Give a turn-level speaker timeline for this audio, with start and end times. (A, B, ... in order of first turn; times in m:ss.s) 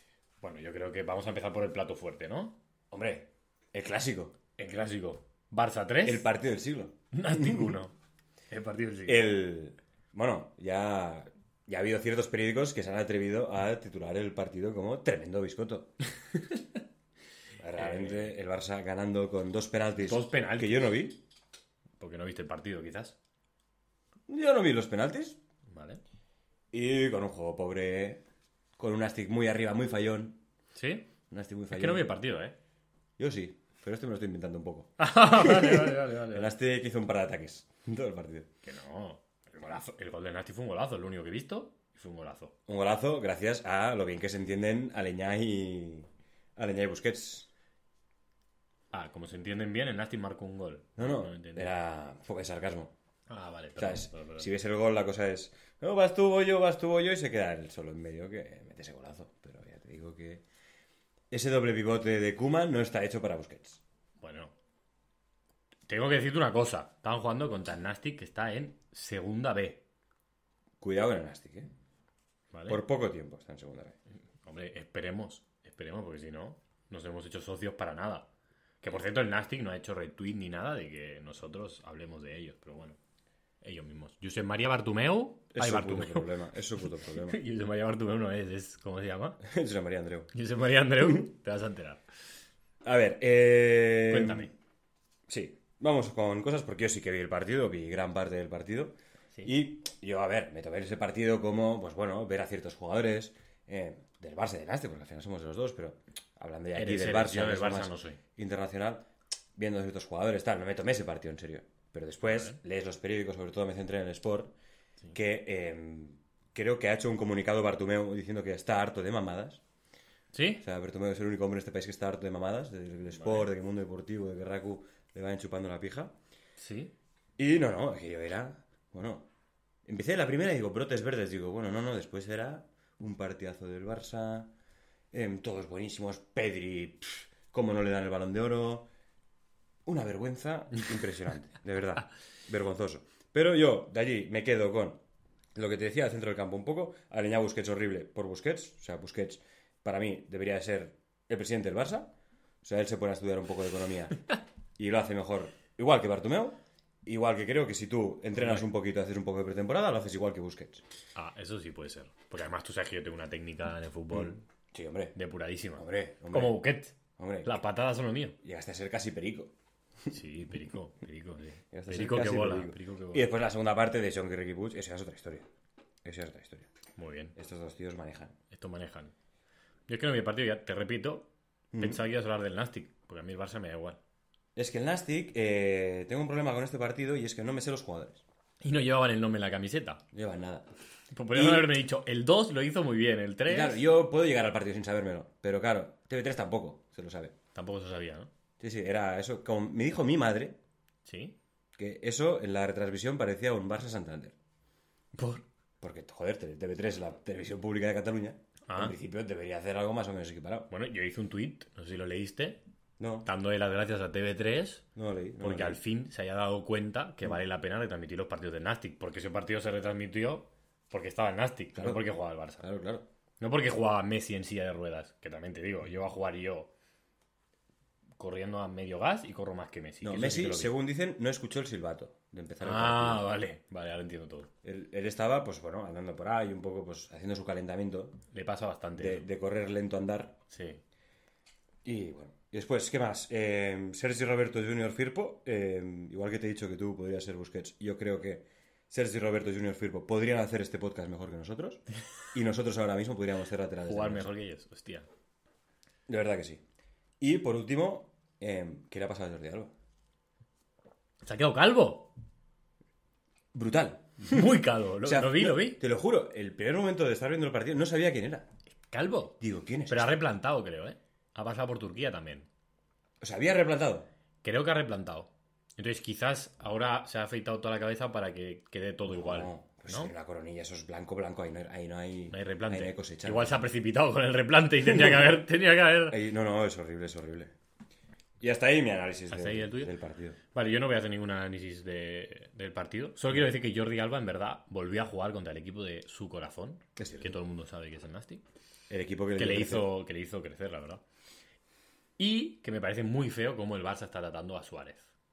0:00.4-0:02.6 A
0:02.9-0:04.3 B
0:04.6-0:06.3 A
0:06.0-0:07.8 B
0:07.1-0:07.9 A
0:08.5-0:09.3 A
0:09.0-0:15.9 B
0:17.6-0:21.2 B
0:17.7-0:18.4 A
0:20.0-0:20.9 A
0:22.0-0:23.2 A
0:24.3-0:25.4 B
0:25.7-0:26.0 A
0:26.7-0:28.2 B
0:28.8-0:30.4 B
0:30.7-0:31.1 A
0:31.3-0:32.1 B
0:31.7-0:32.5 A
0:33.2-0:38.5 B
0:35.0-0:36.5 A
0:38.6-0:42.5 A
0:42.7-0:47.5 B
0:48.9-0:51.7 A
0:51.0-0:52.9 B
0:53.3-0:54.5 A
0:53.8-1:00.4 B
1:01.3-1:03.8 B
1:04.2-1:04.5 A
1:05.9-1:09.8 A
1:10.8-1:11.7 B
1:12.5-1:12.8 A
1:12.7-1:14.0 B
1:14.4-1:18.3 A
1:18.8-1:23.0 A
1:23.6-1:26.3 A
1:25.5-1:27.4 B
1:27.1-1:29.4 A
1:29.4-1:30.3 B
1:30.3-1:32.0 A
1:32.8-1:34.5 B
1:34.1-1:34.5 A
1:35.3-1:38.9 B
1:39.4-1:49.0 B
1:46.7-1:48.2 A
1:49.6-1:54.5 B
1:52.2-1:52.6 A
1:55.1-1:59.6 B
2:00.3-2:00.6 A
2:00.6-2:06.1 B
2:03.1-2:03.5 A
2:06.6-2:06.9 A
2:07.4-2:09.3 B
2:09.8-2:14.5 B
2:15.1-2:18.9 B
2:19.8-2:25.0 B
2:25.5-2:32.1 B
2:32.6-2:34.2 B
2:34.8-2:40.8 B
2:38.3-2:38.7 A
2:41.1-2:44.4 A
2:44.1-2:45.1 B
2:45.1-2:48.4 A
2:45.8-2:46.6 B
2:47.2-2:47.6 B
2:48.4-2:49.5 B
2:50.1-2:53.3 A
2:51.7-2:55.5 B
2:56.0-2:56.7 B
2:57.0-2:57.3 A
2:57.3-2:58.3 B
2:58.5-2:59.1 A
2:59.9-3:04.0 A
3:01.7-3:02.0 B
3:04.6-3:08.2 B
3:08.6-3:10.0 A
3:10.1-3:10.7 B
3:11.1-3:13.8 A
3:11.3-3:11.7 B
3:13.5-3:17.3 B
3:17.5-3:18.3 A
3:18.6-3:20.6 B
3:21.0-3:21.3 A
3:21.8-3:24.3 B
3:25.1-3:25.4 A
3:25.8-3:30.7 B
3:28.7-3:28.9 A
3:30.7-3:32.6 A
3:33.0-3:33.3 B
3:33.2-3:34.8 A
3:35.0-3:35.8 B
3:35.4-3:42.6 A
3:41.7-3:42.0 B
3:42.6-3:43.0 B
3:43.4-3:46.7 A
3:48.2-3:50.7 A
3:50.0-3:53.2 B
3:52.6-3:54.5 A
3:54.6-3:58.2 B
3:58.3-3:59.3 A
3:59.0-4:00.4 B
4:00.5-4:00.8 A
4:01.8-4:14.3 B
4:13.8-4:15.1 A
4:16.1-4:16.6 B
4:17.2-4:19.7 B
4:21.2-4:22.1 A
4:23.5-4:28.5 B
4:24.2-4:25.8 A
4:28.9-4:32.5 A
4:29.4-4:30.2 B
4:33.2-4:34.1 B
4:34.4-4:40.1 A
4:39.1-4:43.6 B
4:42.3-4:46.2 A
4:46.1-4:47.5 B
4:48.4-4:50.4 B
4:49.3-4:49.9 A
4:50.5-4:58.4 A
4:57.0-4:57.4 B
4:58.9-4:59.9 B
4:59.4-5:01.0 A
5:02.2-5:05.1 A